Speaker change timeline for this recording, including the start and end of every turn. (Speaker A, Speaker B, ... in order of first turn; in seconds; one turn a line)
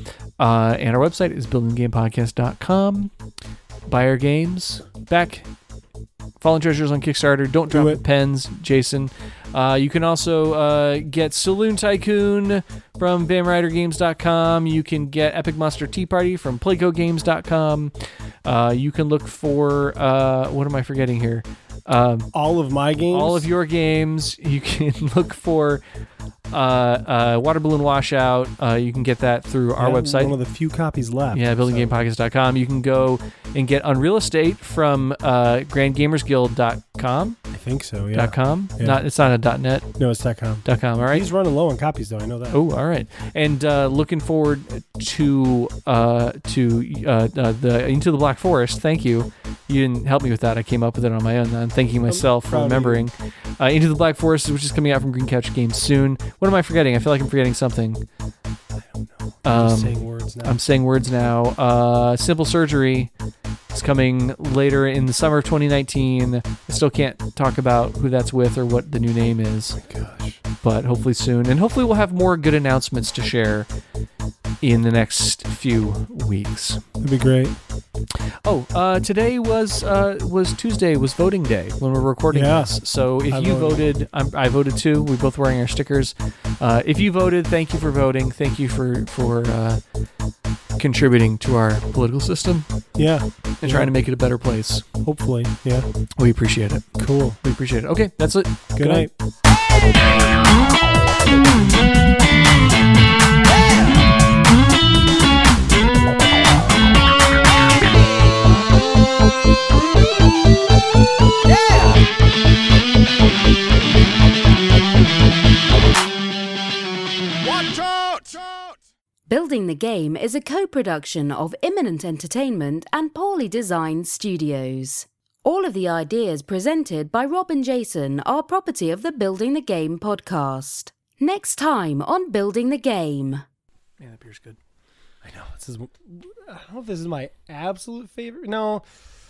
Speaker A: 0.4-3.1
Speaker A: 3.9-5.5
Speaker A: 6.4-17.9
Speaker B: 7.7-8.0
Speaker A: 18.4-22.3
Speaker B: 22.3-23.5
Speaker A: 23.1-25.8
Speaker A: 26.5-30.4
Speaker B: 29.8-31.9
Speaker A: 31.3-37.4
Speaker B: 37.5-39.0
Speaker A: 38.1-39.9
Speaker B: 40.0-42.6
Speaker A: 40.6-41.3
Speaker A: 42.5-58.0
Speaker B: 52.1-53.1
Speaker B: 58.8-60.6
Speaker A: 59.5-63.1
Speaker A: 63.7-69.8
Speaker B: 69.8-70.4
Speaker A: 70.6-73.7
Speaker A: 74.6-76.8
Speaker B: 77.0-77.6
Speaker A: 78.4-89.8
Speaker B: 82.3-83.9
Speaker A: 90.8-92.7
Speaker B: 93.0-93.9
Speaker A: 93.6-94.8
Speaker B: 95.0-95.9
Speaker A: 96.2-96.8
Speaker B: 97.0-97.4
Speaker A: 97.4-99.1
Speaker B: 98.8-99.1
Speaker C: 119.3-133.4
Speaker A: 134.0-134.6
Speaker B: 135.2-138.9